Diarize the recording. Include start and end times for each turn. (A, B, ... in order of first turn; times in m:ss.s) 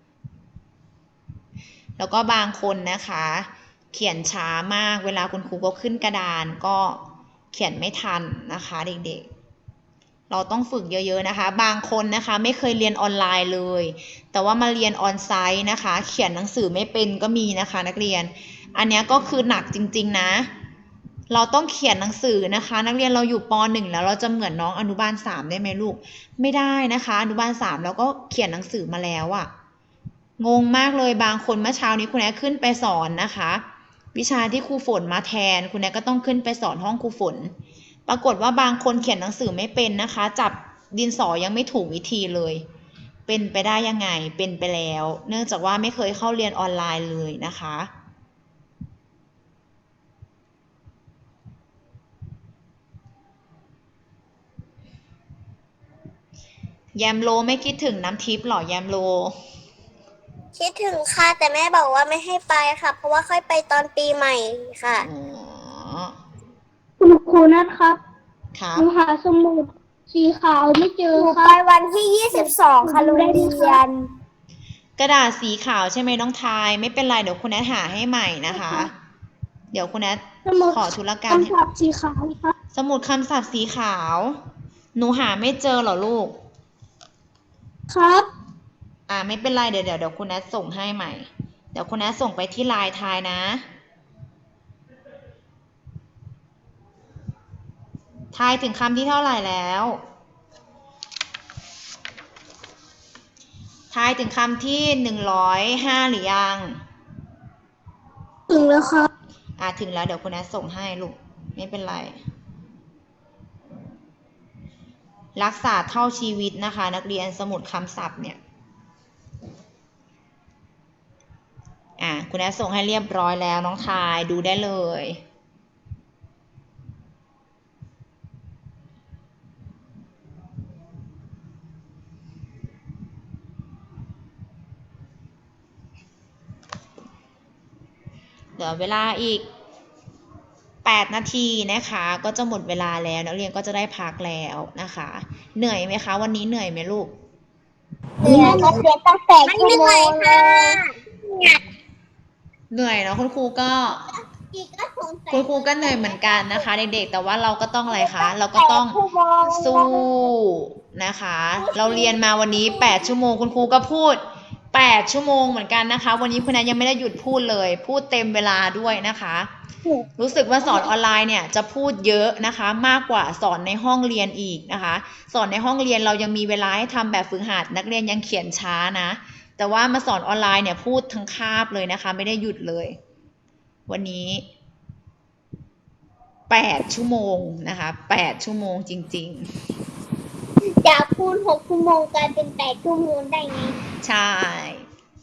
0:02.0-0:09.2 A
0:10.3-0:20.5 A
0:21.3-0:29.5 A
0:30.4-0:33.6 A
0:34.1-0:37.5 A
0:38.1-0:42.6 A
0:43.3-0:47.9 A
0:56.9-0:59.4 A
1:00.6-1:05.1 B
1:05.0-1:06.2 A
1:07.0-1:08.0 C
1:08.5-1:08.9 A
1:08.8-1:11.6 C
1:11.1-1:13.9 B
1:12.3-1:13.8 C
1:15.0-1:18.9 A
1:19.7-1:21.5 A
1:20.4-1:22.5 C
1:22.7-1:24.4 A
1:24.9-1:26.3 A
1:27.9-1:28.3 C
1:29.1-1:33.6 A
1:38.3-1:40.0 A
1:43.9-1:46.8 A
1:48.5-1:49.1 C
1:49.6-1:52.2 A
1:55.4-1:58.4 A
2:02.0-2:05.2 A
2:18.6-2:19.4 A
2:20.8-2:27.1 A
2:28.2-2:28.9 B
2:28.2-2:30.8 C
2:29.4-2:31.6 B
2:32.7-2:34.0 A
2:34.0-2:36.7 B
2:35.3-2:49.5 A
2:37.9-2:40.1 B
2:41.6-2:43.1 B
2:50.2-3:03.0 A
3:03.9-3:04.4 A
3:06.5-3:09.5 A
3:10.8-3:13.8 B
3:14.0-3:14.8 A